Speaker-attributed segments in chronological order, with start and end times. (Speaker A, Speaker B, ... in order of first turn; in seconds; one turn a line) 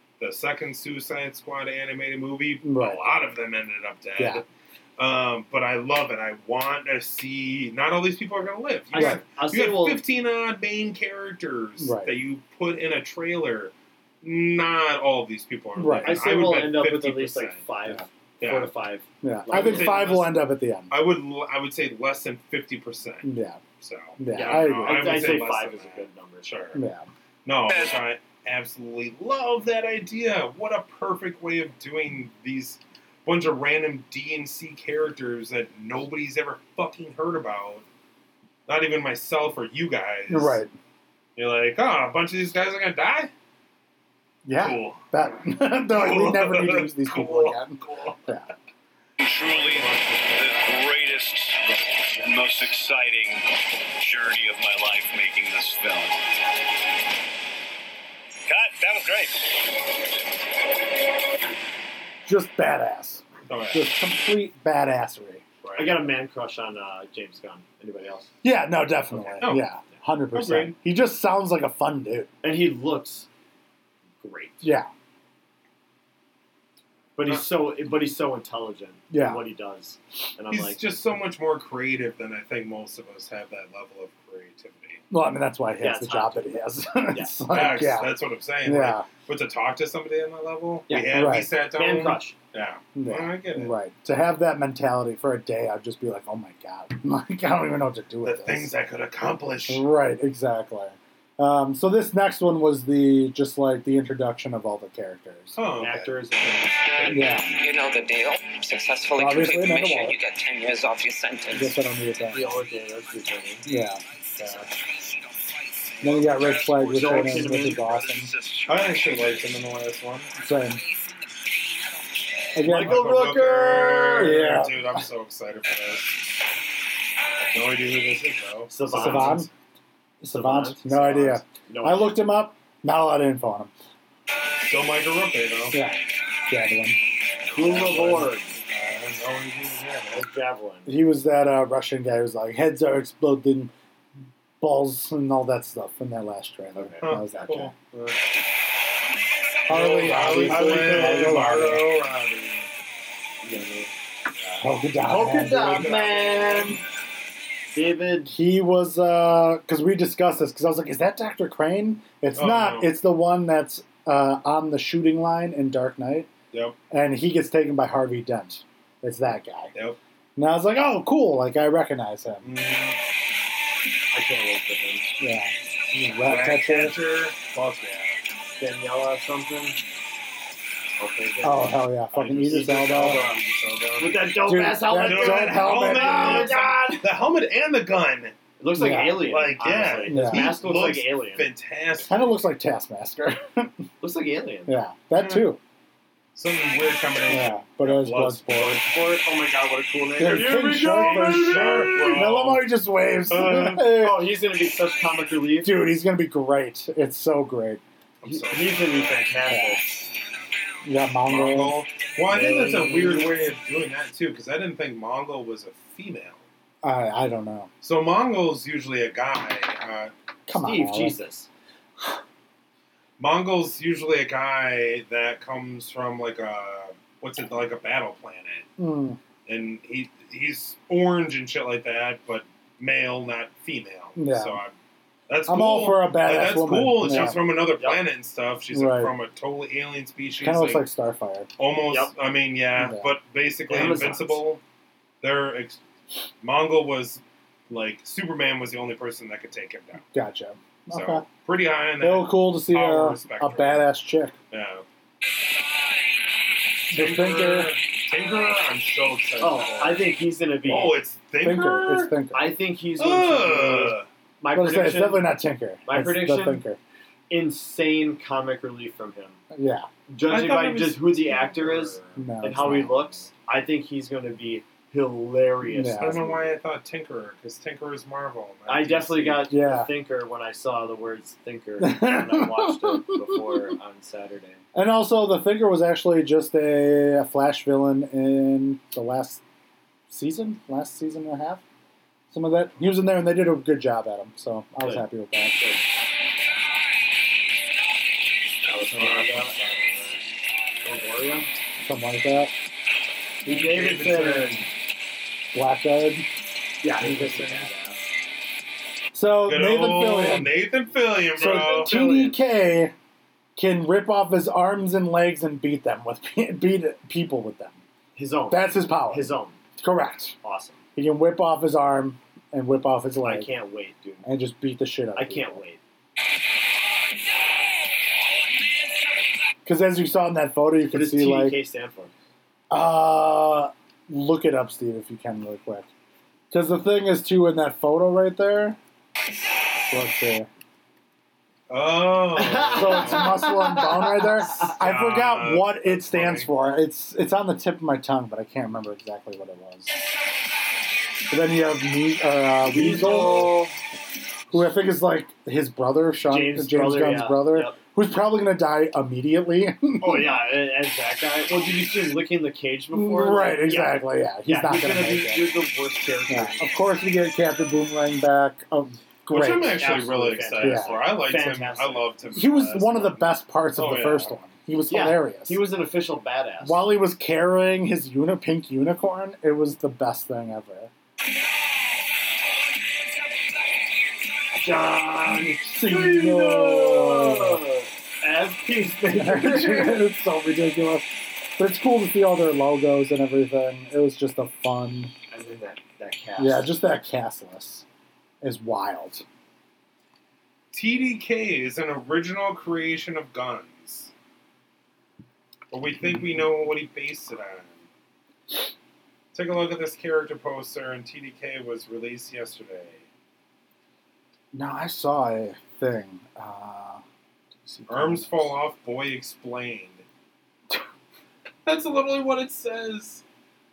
Speaker A: 0.2-4.4
Speaker B: 2.6-3.0
Speaker B: 4.2-4.4
Speaker A: 5.0-17.6
Speaker C: 8.9-10.0
Speaker B: 8.9-9.2
Speaker B: 11.8-12.2
Speaker B: 15.8-16.2
Speaker C: 16.0-20.1
Speaker A: 18.4-18.7
Speaker B: 19.2-20.9
Speaker A: 19.5-23.3
Speaker B: 23.2-23.6
Speaker A: 23.8-26.8
Speaker B: 24.2-25.4
Speaker C: 24.3-26.5
Speaker B: 26.7-27.1
Speaker A: 27.4-37.8
Speaker A: 38.7-40.6
Speaker B: 40.3-40.7
Speaker A: 41.4-43.3
Speaker B: 44.4-48.5
Speaker A: 44.5-45.1
Speaker A: 45.9-48.2
Speaker D: 49.2-53.5
Speaker A: 49.4-52.2
Speaker D: 54.0-56.2
Speaker D: 58.5-59.3
Speaker B: 62.2-65.4
Speaker A: 63.5-63.9
Speaker A: 65.6-66.0
Speaker C: 65.8-68.3
Speaker B: 68.4-72.3
Speaker C: 69.1-69.5
Speaker A: 69.4-69.7
Speaker A: 70.3-70.8
Speaker C: 72.4-73.3
Speaker C: 74.2-74.7
Speaker B: 74.6-74.9
Speaker C: 77.2-80.8
Speaker B: 79.1-79.4
Speaker A: 80.5-85.0
Speaker B: 85.1-89.0
Speaker C: 85.8-86.5
Speaker C: 87.1-87.5
Speaker A: 87.5-93.8
Speaker C: 90.9-92.3
Speaker B: 91.1-91.5
Speaker B: 93.0-98.7
Speaker A: 98.2-99.9
Speaker B: 99.7-105.6
Speaker A: 105.5-106.2
Speaker C: 105.8-107.4
Speaker B: 107.1-107.6
Speaker E: 107.6-111.7
Speaker B: 109.2-110.2
Speaker B: 111.5-112.6
Speaker C: 112.3-113.7
Speaker B: 113.6-114.0
Speaker A: 114.4-114.7
Speaker B: 116.0-118.3
Speaker C: 116.9-117.9
Speaker E: 117.8-119.1
Speaker A: 118.7-120.3
Speaker B: 120.4-120.8
Speaker B: 122.5-123.2
Speaker C: 122.6-124.4
Speaker A: 122.7-126.2
Speaker B: 124.2-125.0
Speaker A: 127.5-129.5
Speaker C: 128.7-129.4
Speaker B: 128.9-129.5
Speaker B: 130.2-133.7
Speaker C: 130.3-132.2
Speaker A: 134.6-135.8
Speaker B: 135.7-137.0
Speaker C: 137.5-138.6
Speaker A: 137.6-140.3
Speaker B: 137.8-138.0
Speaker C: 140.1-140.9
Speaker B: 140.8-143.7
Speaker B: 144.6-147.7
Speaker C: 146.8-147.5
Speaker A: 147.0-148.2
Speaker B: 149.7-151.9
Speaker A: 149.7-152.7
Speaker C: 150.1-151.6
Speaker C: 153.4-153.9
Speaker C: 154.4-156.8
Speaker B: 154.6-155.9
Speaker A: 155.4-156.8
Speaker C: 157.7-158.3
Speaker B: 158.3-166.3
Speaker A: 162.3-162.9
Speaker A: 166.5-166.8
Speaker B: 166.9-169.7
Speaker B: 170.3-172.5
Speaker A: 172.4-173.0
Speaker C: 174.1-175.1
Speaker B: 175.2-177.0
Speaker A: 176.2-178.2
Speaker C: 178.6-179.8
Speaker C: 181.0-181.8
Speaker B: 181.4-183.2
Speaker A: 182.1-188.3
Speaker C: 182.5-183.4
Speaker C: 184.0-187.1
Speaker B: 184.4-186.6
Speaker C: 188.6-191.5
Speaker B: 188.7-190.6
Speaker A: 189.3-192.4
Speaker B: 192.1-193.8
Speaker C: 194.0-194.7
Speaker B: 194.7-195.6
Speaker A: 195.1-195.5
Speaker A: 196.3-198.8
Speaker B: 197.3-198.8
Speaker C: 198.5-202.0
Speaker B: 200.2-204.3
Speaker A: 200.7-202.7
Speaker C: 203.3-205.9
Speaker B: 205.6-207.8
Speaker A: 208.2-209.2
Speaker C: 208.2-209.8
Speaker B: 209.5-209.8
Speaker B: 210.8-211.8
Speaker A: 211.3-216.4
Speaker C: 212.3-213.3
Speaker B: 216.8-217.7
Speaker A: 217.8-220.1
Speaker B: 220.5-221.2
Speaker C: 220.5-221.5
Speaker A: 223.2-228.7
Speaker B: 228.8-229.2
Speaker A: 229.4-234.7
Speaker B: 234.2-234.6
Speaker A: 235.3-240.9
Speaker B: 235.4-237.4
Speaker C: 237.1-238.0
Speaker B: 238.7-239.2
Speaker B: 240.4-241.5
Speaker A: 241.6-244.6
Speaker C: 241.9-242.1
Speaker B: 242.8-243.1
Speaker C: 243.7-244.4
Speaker A: 245.2-245.8
Speaker A: 246.4-250.1
Speaker B: 250.1-251.2
Speaker A: 250.9-253.9
Speaker B: 252.0-254.3
Speaker A: 254.5-254.8
Speaker A: 256.9-260.1
Speaker B: 256.9-257.7
Speaker C: 259.4-261.0
Speaker A: 260.6-262.2
Speaker B: 261.4-262.5
Speaker C: 262.3-266.6
Speaker A: 263.0-264.1
Speaker B: 264.5-266.8
Speaker C: 267.3-269.4
Speaker B: 269.5-269.9
Speaker C: 270.1-276.5
Speaker A: 270.3-272.9
Speaker B: 272.1-273.1
Speaker B: 275.6-276.2
Speaker A: 275.9-279.5
Speaker C: 278.7-284.6
Speaker B: 279.5-279.9
Speaker B: 281.8-283.7
Speaker B: 284.7-289.4
Speaker B: 290.1-291.6
Speaker B: 292.3-295.6
Speaker C: 294.8-295.8
Speaker C: 298.6-300.0
Speaker A: 298.9-300.2
Speaker C: 300.8-301.5
Speaker B: 301.8-302.5
Speaker C: 303.4-304.7
Speaker A: 303.5-304.6
Speaker B: 305.5-306.3
Speaker C: 306.8-308.0
Speaker A: 307.0-307.6
Speaker B: 309.1-310.6
Speaker A: 309.4-312.0
Speaker C: 311.4-312.4
Speaker B: 311.4-312.9
Speaker B: 313.6-317.8
Speaker C: 318.1-319.6
Speaker B: 318.5-320.4
Speaker C: 320.4-320.8
Speaker B: 320.9-323.5
Speaker C: 323.2-324.3
Speaker B: 324.2-325.6
Speaker C: 325.1-325.8
Speaker B: 329.6-331.6
Speaker C: 330.9-332.1
Speaker B: 332.7-335.9
Speaker B: 336.5-338.8
Speaker B: 339.8-340.5
Speaker A: 341.7-343.4
Speaker C: 342.4-344.7
Speaker B: 342.7-349.9
Speaker A: 344.7-346.5
Speaker B: 351.3-353.6
Speaker C: 352.6-353.8
Speaker B: 354.5-360.4
Speaker C: 356.3-357.8
Speaker C: 360.0-366.8
Speaker B: 362.9-365.5
Speaker B: 366.3-369.9
Speaker A: 369.3-374.4
Speaker C: 369.6-372.1
Speaker B: 370.6-371.0
Speaker B: 372.3-375.6
Speaker C: 374.9-376.9
Speaker B: 376.6-380.9
Speaker C: 384.5-390.1
Speaker B: 385.4-387.6
Speaker B: 389.1-395.1
Speaker C: 395.3-396.7
Speaker B: 396.4-397.9
Speaker B: 398.4-399.2
Speaker A: 400.7-404.1
Speaker A: 405.7-407.9
Speaker A: 409.3-413.0
Speaker B: 414.5-417.0
Speaker B: 417.6-418.6
Speaker A: 417.9-420.0
Speaker A: 421.6-423.2